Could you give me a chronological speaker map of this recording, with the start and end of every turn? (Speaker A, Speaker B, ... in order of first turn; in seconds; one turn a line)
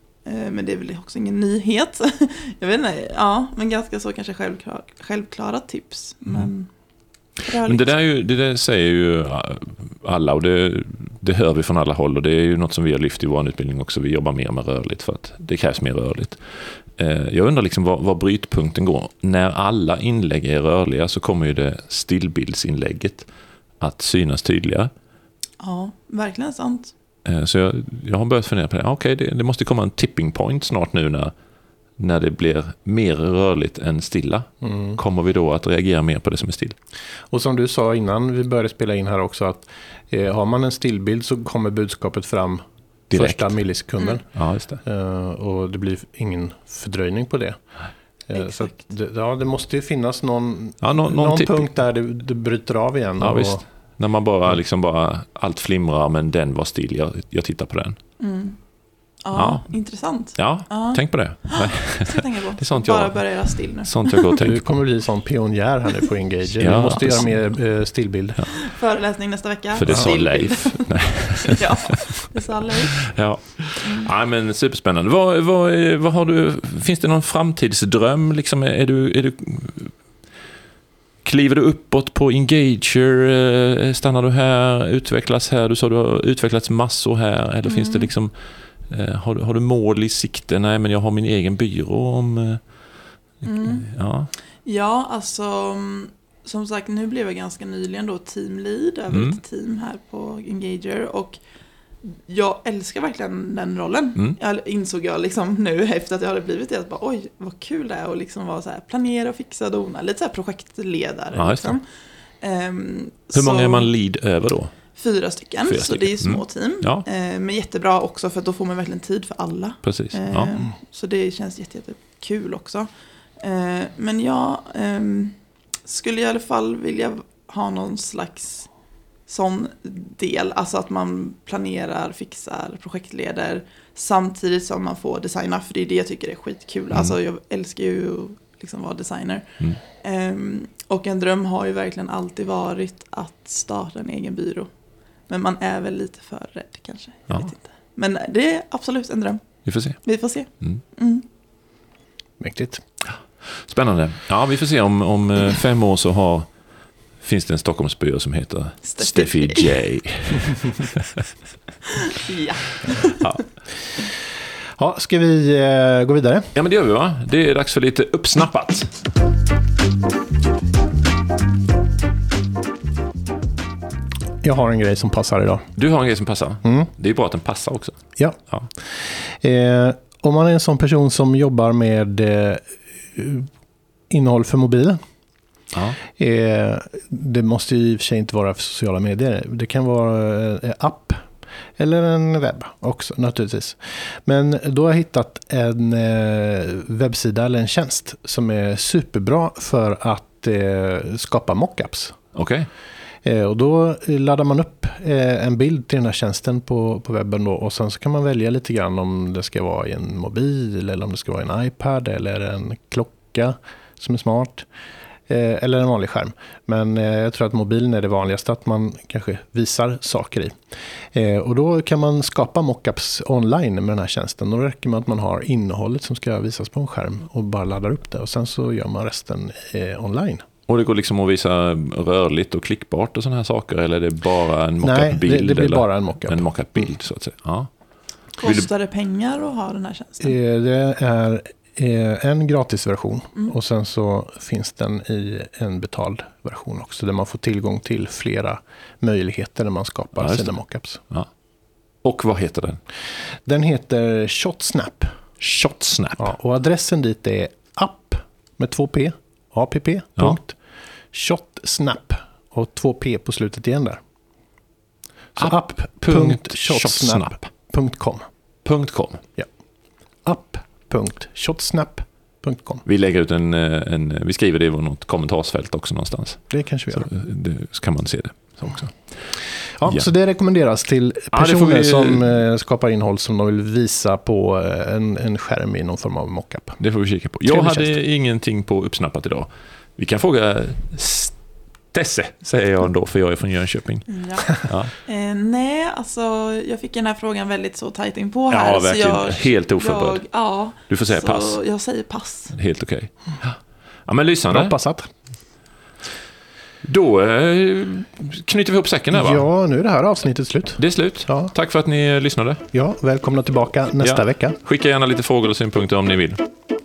Speaker A: 0.2-6.7
Speaker A: 7.4-8.0
Speaker B: 7.7-23.3
Speaker B: 23.8-24.9
Speaker A: 25.6-26.9
Speaker B: 27.2-31.3
Speaker B: 32.0-36.8
Speaker C: 34.6-35.0
Speaker C: 37.3-47.6
Speaker B: 43.1-43.6
Speaker B: 44.3-44.8
Speaker C: 48.3-53.6
Speaker A: 48.3-48.9
Speaker B: 50.8-51.7
Speaker B: 53.2-58.0
Speaker A: 58.2-58.6
Speaker A: 59.2-64.4
Speaker B: 59.3-59.7
Speaker B: 60.4-63.3
Speaker B: 63.8-64.6
Speaker C: 64.4-68.5
Speaker B: 66.6-67.4
Speaker A: 68.5-73.2
Speaker B: 69.8-72.0
Speaker B: 73.1-80.0
Speaker A: 73.8-74.1
Speaker B: 81.2-94.3
Speaker A: 87.6-88.1
Speaker A: 93.4-93.9
Speaker A: 94.7-101.4
Speaker B: 99.1-99.4
Speaker A: 102.0-111.8
Speaker B: 111.3-111.8
Speaker A: 112.4-113.9
Speaker B: 113.3-114.8
Speaker A: 115.0-122.9
Speaker B: 115.7-117.0
Speaker B: 119.8-120.5
Speaker A: 123.4-128.7
Speaker A: 129.3-144.7
Speaker A: 145.3-151.2
Speaker B: 149.7-150.0
Speaker C: 152.4-152.8
Speaker B: 153.1-156.5
Speaker B: 157.2-161.2
Speaker A: 158.8-159.7
Speaker A: 161.9-163.3
Speaker C: 164.8-166.5
Speaker B: 166.6-168.9
Speaker C: 174.4-175.7
Speaker B: 175.8-178.7
Speaker C: 176.6-176.9
Speaker C: 178.2-183.5
Speaker C: 184.1-185.0
Speaker B: 185.7-186.0
Speaker C: 186.0-202.2
Speaker B: 202.3-202.7
Speaker C: 203.2-214.7
Speaker C: 215.3-220.6
Speaker C: 221.1-230.4
Speaker B: 230.7-237.7
Speaker C: 234.8-236.8
Speaker B: 238.4-238.7
Speaker A: 238.4-240.3
Speaker C: 240.2-251.0
Speaker B: 250.2-250.5
Speaker B: 252.0-252.8
Speaker C: 253.4-255.2
Speaker B: 255.4-256.2
Speaker C: 256.2-260.6
Speaker C: 261.1-264.0
Speaker C: 265.4-268.3
Speaker B: 265.4-267.5
Speaker B: 268.6-269.2
Speaker C: 270.2-272.8
Speaker B: 272.9-279.1
Speaker C: 276.5-277.1
Speaker C: 279.8-286.8
Speaker B: 281.3-282.3
Speaker B: 286.8-291.4
Speaker C: 287.4-287.9
Speaker B: 291.9-294.1
Speaker A: 294.1-302.6
Speaker B: 294.6-294.9
Speaker B: 298.5-300.2
Speaker B: 300.9-301.6
Speaker B: 302.5-304.8
Speaker C: 304.5-305.1
Speaker B: 306.8-309.5
Speaker C: 309.1-311.5
Speaker B: 310.8-312.6
Speaker C: 312.7-314.6
Speaker B: 314.0-316.4